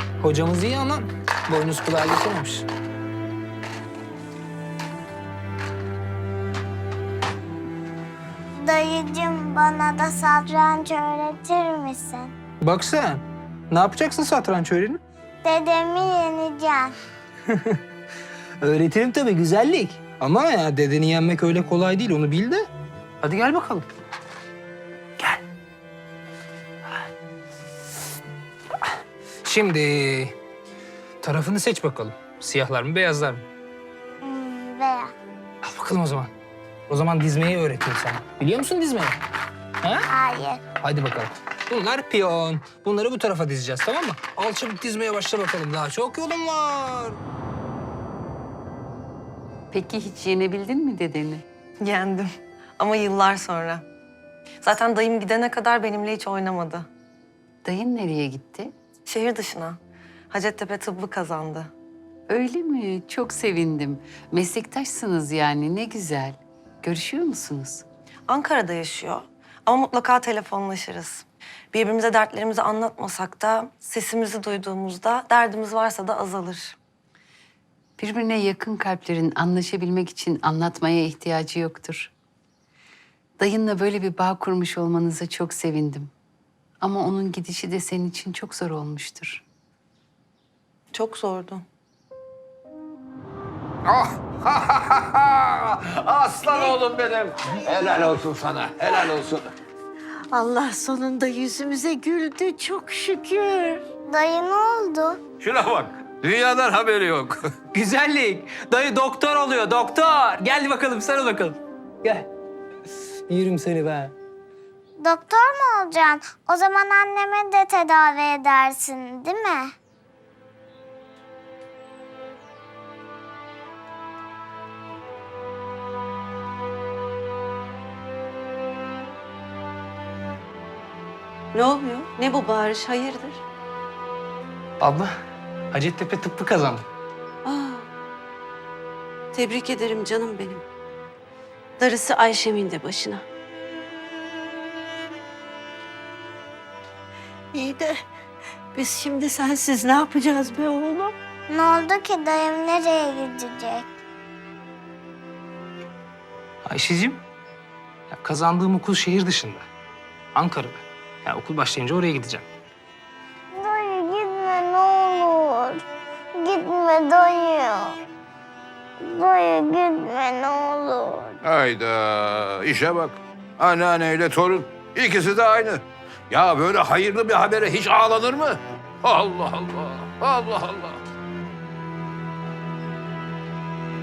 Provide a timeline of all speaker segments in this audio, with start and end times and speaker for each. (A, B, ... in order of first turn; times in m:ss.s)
0:00.2-0:02.7 A
0:08.5-0:12.3 B
0:12.6-0:15.0 A
0:15.4-0:17.0 B
0:17.5-0:17.8 A
0:18.6-0:22.7 A
0:23.2-0:23.8 A
0:29.4-0:30.4 A
0:31.2-0:33.4 A
0:34.2-0:35.1 B
0:35.6-0:36.3 A
0:36.9-0:39.2 A
0:39.8-0:40.1 A
0:40.1-0:40.6 B
0:40.8-0:47.2 A
0:49.7-0:51.4 C
0:51.8-0:53.8 D
0:54.6-0:56.9 D
0:57.6-0:58.7 C
0:59.0-0:59.8 D
1:00.3-1:01.7 D
1:02.3-1:07.8 C
1:08.3-1:16.8 D
1:18.0-1:22.1 C
1:23.4-1:26.1 C
1:26.8-1:29.4 C
1:30.9-1:31.6 D
1:33.8-1:39.5 E
1:40.3-1:43.8 F
1:44.1-1:45.2 B
1:45.4-1:47.5 E
1:47.7-1:52.3 A
1:53.3-1:54.1 A
1:55.0-1:59.7 B
2:11.5-2:13.4 G
2:14.8-2:15.1 A
2:15.7-2:16.9 A
2:17.4-2:17.9 G
2:19.3-2:20.6 G
2:21.8-2:23.2 G
2:27.5-2:28.0 F
2:28.7-2:31.2 F
2:31.5-2:33.9 B
2:36.6-2:37.2 A
2:38.1-2:39.7 A
2:40.3-2:42.5 A
2:43.5-2:45.8 B
2:46.4-2:48.0 B
2:49.0-2:51.4 B
2:51.4-3:01.0 E